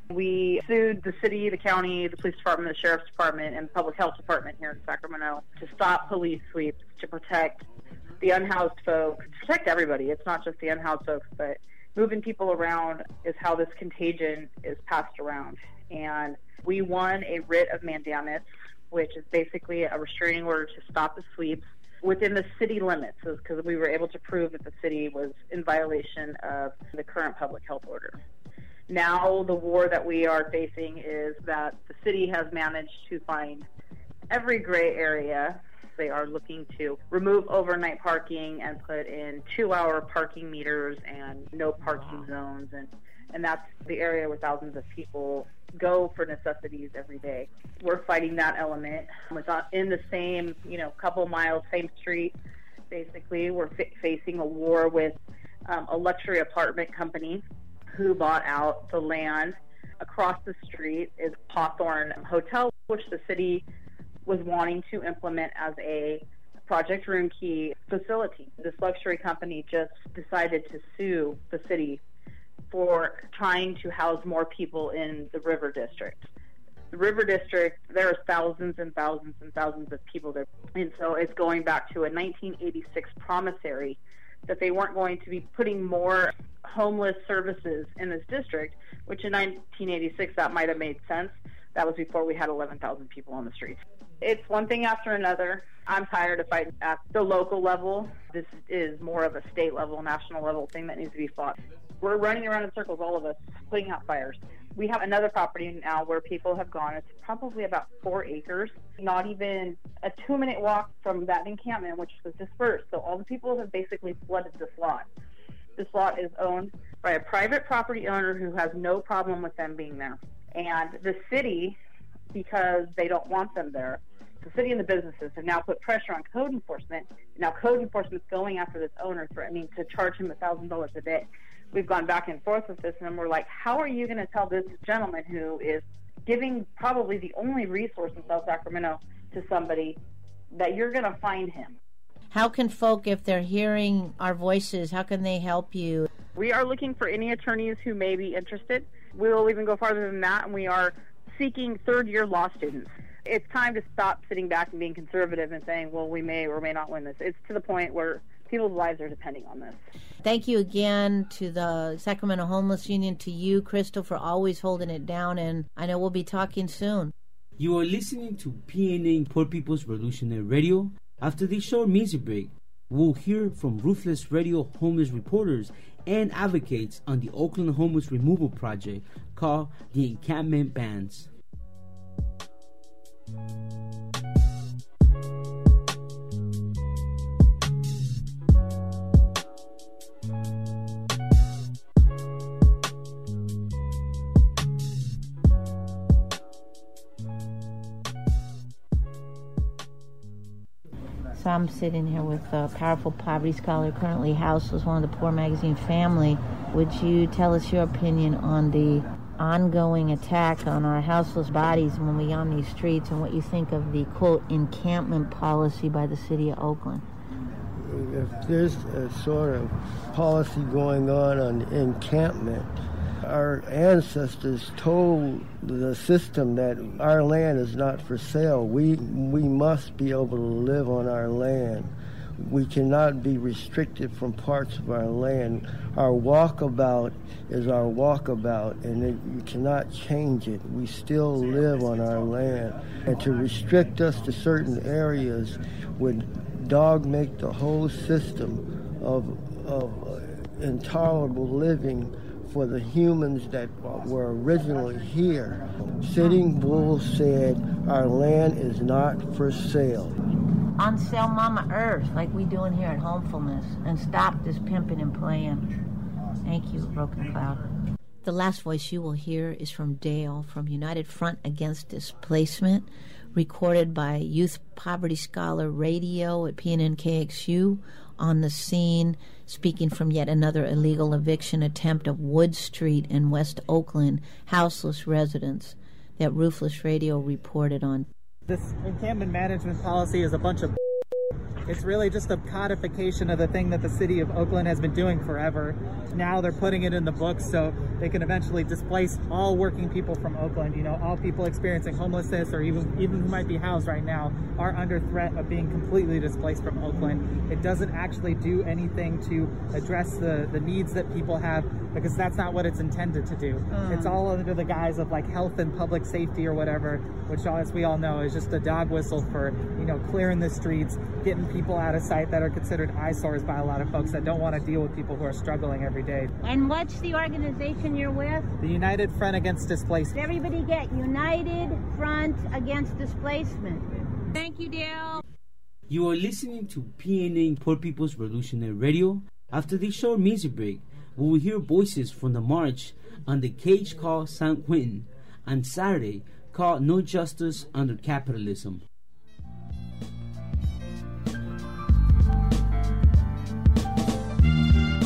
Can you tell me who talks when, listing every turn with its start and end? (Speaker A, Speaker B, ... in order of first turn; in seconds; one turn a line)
Speaker A: 0.1-7.7
Speaker A: 8.2-28.2
Speaker A: 28.9-33.7
Speaker A: 34.3-52.3
Speaker A: 52.9-55.2
Speaker A: 55.7-63.6
Speaker A: 64.2-72.0
Speaker A: 72.7-76.3
Speaker A: 76.9-115.1
Speaker A: 115.8-121.8
Speaker A: 122.3-140.0
Speaker A: 140.5-141.8
Speaker B: 142.3-146.1
Speaker A: 146.3-159.8
Speaker B: 160.2-167.1
Speaker C: 167.6-181.3
Speaker B: 201.3-217.0
Speaker D: 217.8-222.7
Speaker D: 223.2-260.1
Speaker B: 260.8-265.8
Speaker B: 266.4-267.7
Speaker B: 268.2-288.1
Speaker E: 288.5-290.8
Speaker E: 291.7-326.3
Speaker F: 313.7-314.1
Speaker F: 326.4-328.5
Speaker E: 328.6-330.2
Speaker F: 330.1-335.2
Speaker C: 335.9-348.8